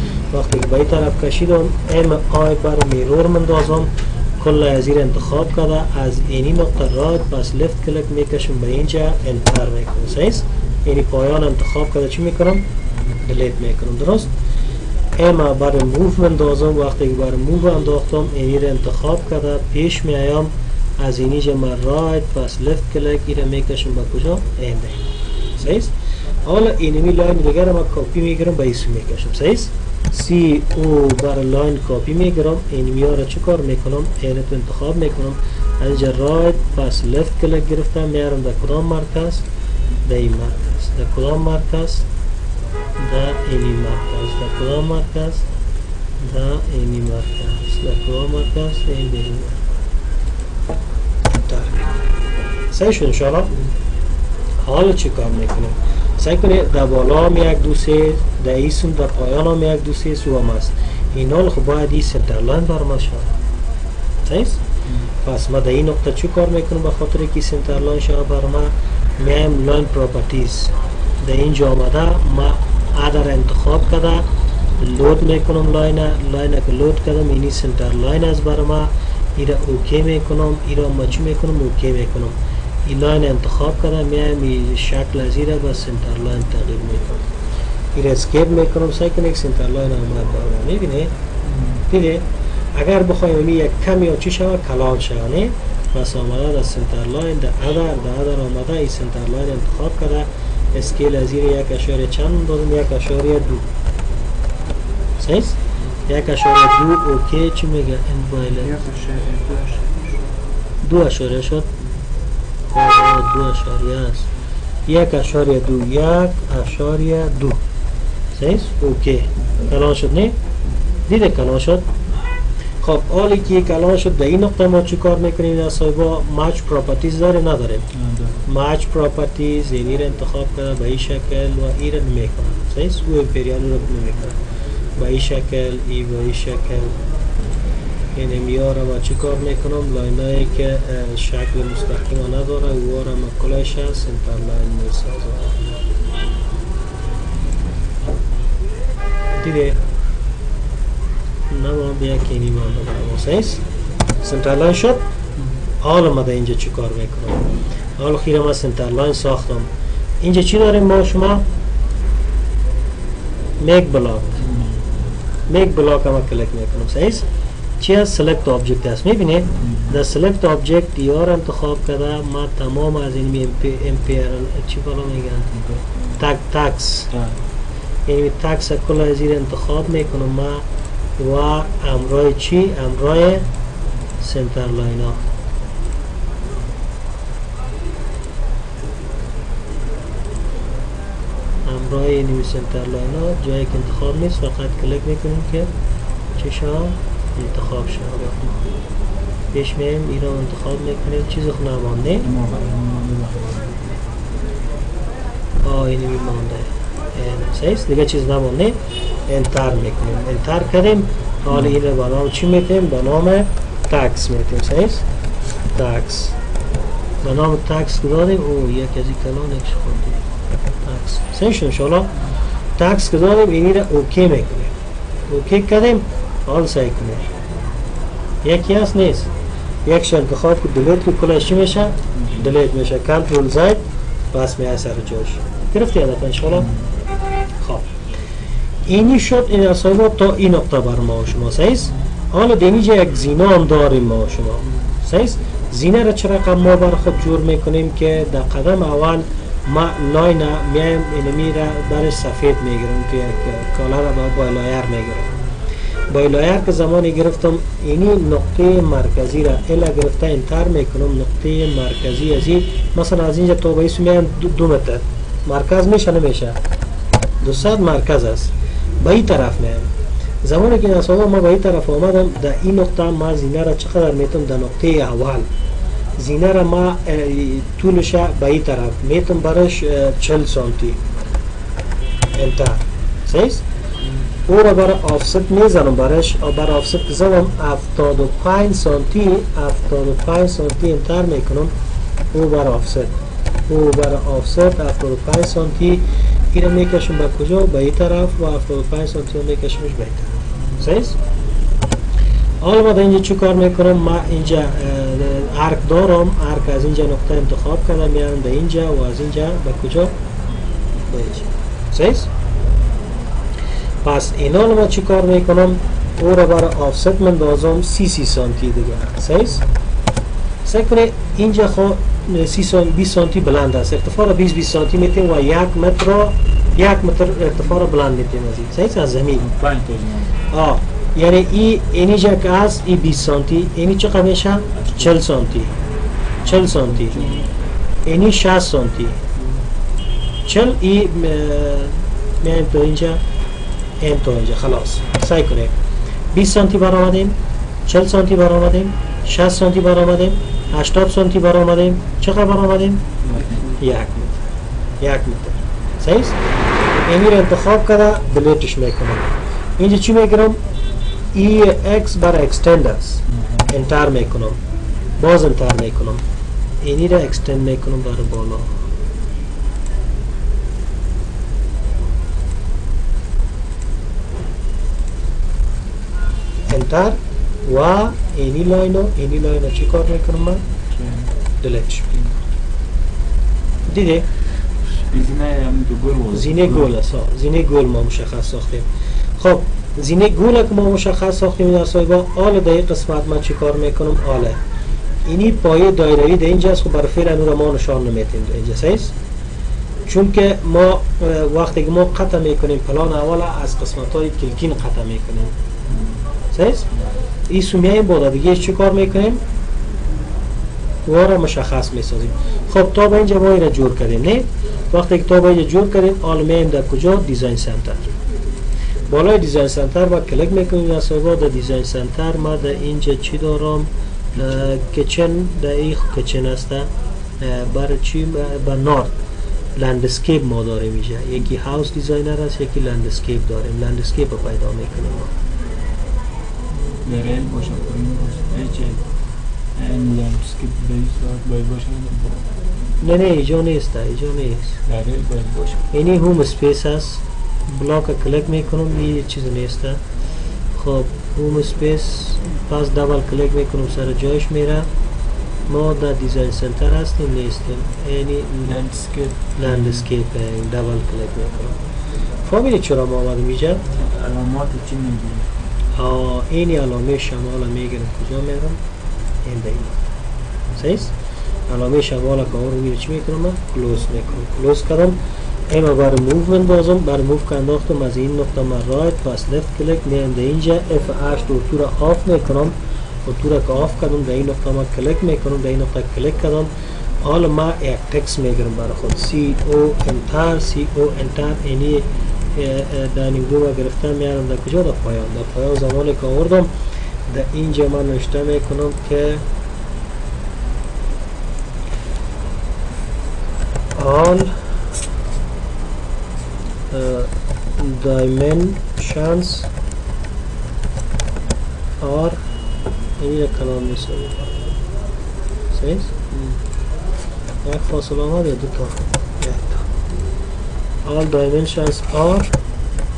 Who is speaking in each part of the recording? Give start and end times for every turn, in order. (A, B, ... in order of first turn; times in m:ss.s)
0:00.3-0:12.6 A
0:13.2-0:14.3 A
0:15.2-0:25.0 A
0:25.6-0:25.9 A
0:26.5-0:39.4 A
0:40.0-0:42.0 A
0:43.0-0:45.4 A
0:46.2-0:49.6 A
0:51.3-0:51.9 A
0:52.7-0:53.5 A
0:54.6-1:03.3 A
1:04.2-1:04.6 A
1:05.2-1:14.3 A
1:14.8-1:27.2 A
1:28.0-1:31.1 A
1:31.5-1:31.8 B
1:31.9-1:43.7 A
1:45.2-1:45.6 A
1:46.1-1:48.7 A
1:48.5-1:50.3 C
1:50.8-1:51.7 A
1:52.7-1:54.3 A
1:54.9-1:57.6 A
1:58.4-2:00.4 A
2:01.1-2:01.9 A
2:02.8-2:07.9 A
2:07.9-2:08.4 B
2:08.5-2:14.4 A
2:15.0-2:17.0 A
2:18.2-2:25.6 A
2:29.4-2:29.8 A
2:31.5-2:33.6 A
2:34.2-2:35.0 A
2:35.8-2:39.7 A
2:40.2-2:41.4 A
2:43.6-2:44.4 A
2:44.4-2:44.8 B
2:45.5-2:47.3 A
2:47.8-2:55.5 A
2:49.6-2:50.0 B
2:55.5-2:55.8 B
2:56.2-2:57.1 A
2:57.1-2:57.4 B
2:58.1-3:00.6 A
3:01.2-3:03.5 A
3:04.2-3:05.2 A
3:11.7-3:15.7 A
3:16.4-3:18.7 A
3:19.5-3:22.3 A
3:22.2-3:23.8 B
3:25.6-3:35.0 A
3:31.5-3:31.8 B
3:35.7-3:36.4 A
3:37.2-3:40.2 A
3:40.8-3:42.2 A
3:42.8-3:44.7 A
3:45.3-3:47.3 A
3:48.4-3:49.3 A
3:49.9-3:53.8 A
3:52.1-3:52.5 B
3:54.3-3:56.7 A
3:56.6-3:56.9 B
3:57.6-3:57.9 A
3:58.9-4:15.3 A
4:16.1-4:26.6 A
4:27.4-4:29.9 A
4:30.4-4:35.5 A
4:36.2-4:41.0 A
4:42.3-4:43.6 A
4:44.0-4:44.3 C
4:44.5-4:51.7 A
4:52.3-4:53.2 A
4:53.7-5:01.2 A
5:02.6-5:10.2 A
5:11.1-5:12.3 A
5:14.0-5:19.6 A
5:20.6-5:29.5 A
5:29.4-5:30.4 B
5:30.5-5:35.8 A
5:34.8-5:35.2 B
5:36.4-5:37.2 A
5:36.4-5:37.5 B
5:37.1-5:37.4 C
5:38.1-5:39.2 A
5:39.4-5:39.6 C
5:40.4-5:43.2 A
5:44.0-5:45.7 A
5:46.3-5:47.4 A
5:47.9-5:53.1 A
5:53.2-5:53.7 B
5:53.3-5:53.8 C
5:53.8-5:54.4 A
5:55.0-5:56.4 A
5:57.1-6:00.6 A
6:01.3-6:04.6 A
6:03.3-6:03.7 B
6:05.2-6:06.2 A
6:06.8-6:08.9 A
6:16.7-6:20.6 A
6:20.9-6:21.3 B
6:21.6-6:22.1 A
6:23.9-6:24.3 A
6:25.1-6:26.9 B
6:26.3-6:34.6 A
6:35.3-6:39.1 A
6:40.1-6:45.5 A
6:45.9-6:46.2 B
6:46.5-6:46.9 A
6:47.5-6:49.4 A
6:51.1-6:58.1 A
6:59.1-7:09.1 A
7:09.8-7:15.3 A
7:17.0-7:19.2 B
7:19.7-7:22.5 B
7:23.0-7:24.8 A
7:24.9-7:25.9 B
7:25.9-7:30.0 A
7:30.8-7:34.9 A
7:35.7-7:38.8 A
7:38.6-7:40.1 B
7:39.6-7:41.8 A
7:42.4-7:43.8 A
7:43.9-7:45.7 B
7:46.0-7:48.8 A
7:49.4-7:50.0 A
7:50.8-7:51.1 A
7:51.7-8:06.7 A
8:07.2-8:16.7 A
8:17.3-8:19.4 A
8:24.0-8:24.6 A
8:26.9-8:29.7 A
8:32.0-8:32.4 A
8:33.2-8:34.5 A
8:35.7-8:36.1 A
8:36.3-8:36.6 C
8:37.6-8:39.9 A
8:41.0-8:42.5 A